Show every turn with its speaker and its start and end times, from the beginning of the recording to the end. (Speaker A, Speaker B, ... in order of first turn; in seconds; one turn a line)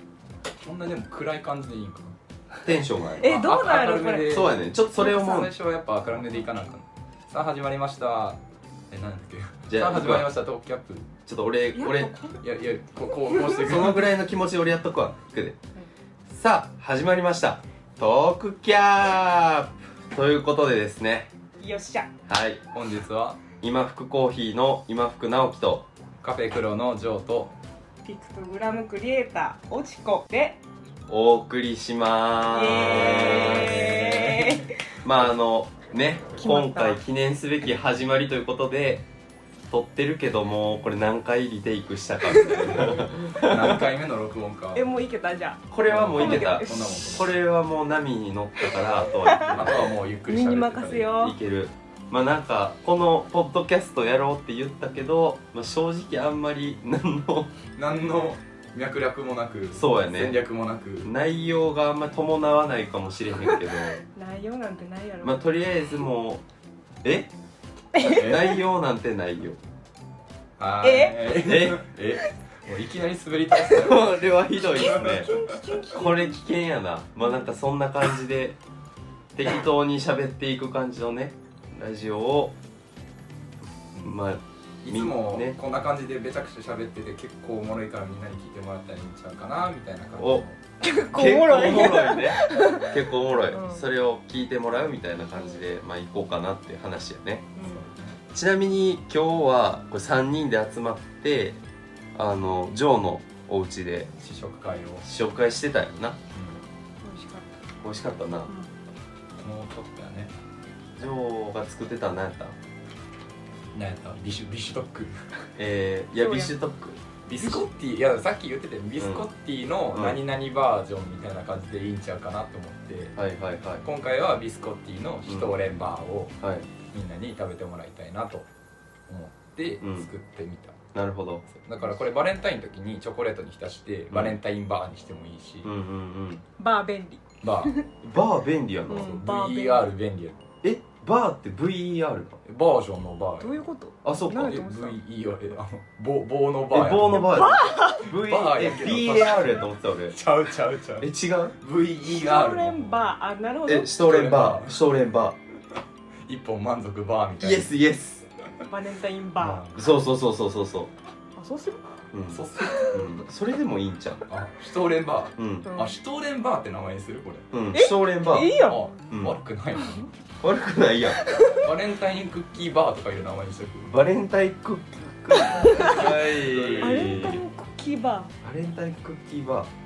Speaker A: 0.6-2.2
Speaker B: 2.6-3.4
Speaker C: 3.2-4.4
Speaker A: 3.2-11.1
Speaker B: 4.2-5.5
Speaker B: 9.7-10.3
Speaker B: 11.3-12.2
Speaker C: 11.8-12.4
Speaker A: 12.4-14.1
Speaker B: 13.5-15.6
Speaker B: 16.3-21.3
Speaker C: 21.6-22.1
Speaker B: 22.3-22.6
Speaker A: 22.7-23.4
Speaker B: 23.6-25.9
Speaker A: 26.2-27.5
Speaker C: 28.1-30.6
Speaker B: 31.1-34.5
Speaker C: 32.5-34.8
Speaker B: 35.0-39.1
Speaker C: 36.3-37.0
Speaker B: 39.7-43.8
Speaker C: 42.3-43.1
Speaker A: 42.6-44.9
Speaker C: 44.7-47.2
Speaker B: 45.7-50.0
Speaker A: 45.9-47.4
Speaker C: 48.7-49.7
Speaker A: 49.5-51.2
Speaker C: 50.2-51.4
Speaker B: 51.1-57.5
Speaker A: 57.8-61.1
Speaker B: 59.7-60.4
Speaker B: 61.0-64.0
Speaker C: 63.4-65.5
Speaker B: 65.2-66.4
Speaker B: 67.0-67.3
Speaker C: 67.9-68.6
Speaker B: 68.0-69.6
Speaker A: 68.2-68.5
Speaker A: 70.6-74.4
Speaker C: 70.8-71.4
Speaker B: 71.4-71.9
Speaker B: 73.7-78.6
Speaker C: 74.6-76.4
Speaker A: 75.0-75.4
Speaker C: 77.2-77.5
Speaker B: 79.3-82.6
Speaker A: 83.9-84.2
Speaker B: 84.0-85.6
Speaker A: 84.8-90.6
Speaker B: 90.2-90.5
Speaker C: 90.8-93.8
Speaker B: 91.1-97.6
Speaker C: 95.4-95.6
Speaker C: 97.6-97.8
Speaker A: 97.6-98.2
Speaker B: 98.3-101.6
Speaker B: 102.2-104.1
Speaker A: 104.2-105.0
Speaker B: 105.0-106.2
Speaker A: 106.3-106.6
Speaker C: 107.0-107.5
Speaker B: 107.8-108.5
Speaker A: 109.4-110.3
Speaker B: 111.0-112.6
Speaker A: 113.7-115.5
Speaker B: 115.6-117.0
Speaker C: 116.1-116.5
Speaker A: 117.3-123.2
Speaker C: 117.4-117.7
Speaker B: 119.0-119.3
Speaker B: 119.9-120.2
Speaker B: 123.2-123.8
Speaker A: 123.8-126.4
Speaker B: 125.3-125.6
Speaker B: 126.4-126.7
Speaker A: 126.9-128.5
Speaker A: 129.1-130.8
Speaker B: 129.8-130.1
Speaker B: 130.9-131.4
Speaker A: 131.5-135.7
Speaker B: 134.1-134.4
Speaker B: 135.6-136.4
Speaker C: 136.6-137.9
Speaker A: 137.4-137.8
Speaker B: 138.0-139.2
Speaker C: 138.9-139.9
Speaker A: 138.9-140.4
Speaker B: 140.6-142.4
Speaker A: 142.4-143.6
Speaker C: 143.4-145.0
Speaker B: 144.0-144.6
Speaker A: 144.3-147.5
Speaker B: 146.7-150.2
Speaker C: 147.2-148.1
Speaker A: 148.0-153.1
Speaker B: 151.0-151.6
Speaker C: 152.1-153.9
Speaker B: 153.7-155.4
Speaker A: 154.0-154.8
Speaker A: 156.2-157.7
Speaker B: 157.4-158.3
Speaker C: 158.7-159.7
Speaker A: 159.4-159.8
Speaker B: 159.7-160.9
Speaker C: 161.4-161.8
Speaker B: 162.1-164.2
Speaker A: 162.3-162.9
Speaker C: 162.6-163.1
Speaker A: 164.3-167.6
Speaker B: 165.4-165.7
Speaker C: 165.7-166.0
Speaker B: 167.5-169.4
Speaker C: 167.7-168.9
Speaker A: 168.6-170.1
Speaker B: 170.4-171.2
Speaker C: 171.2-171.6
Speaker A: 171.4-173.9
Speaker B: 173.8-177.4
Speaker C: 175.5-176.2
Speaker A: 175.7-177.3
Speaker C: 176.8-178.3
Speaker B: 178.4-179.7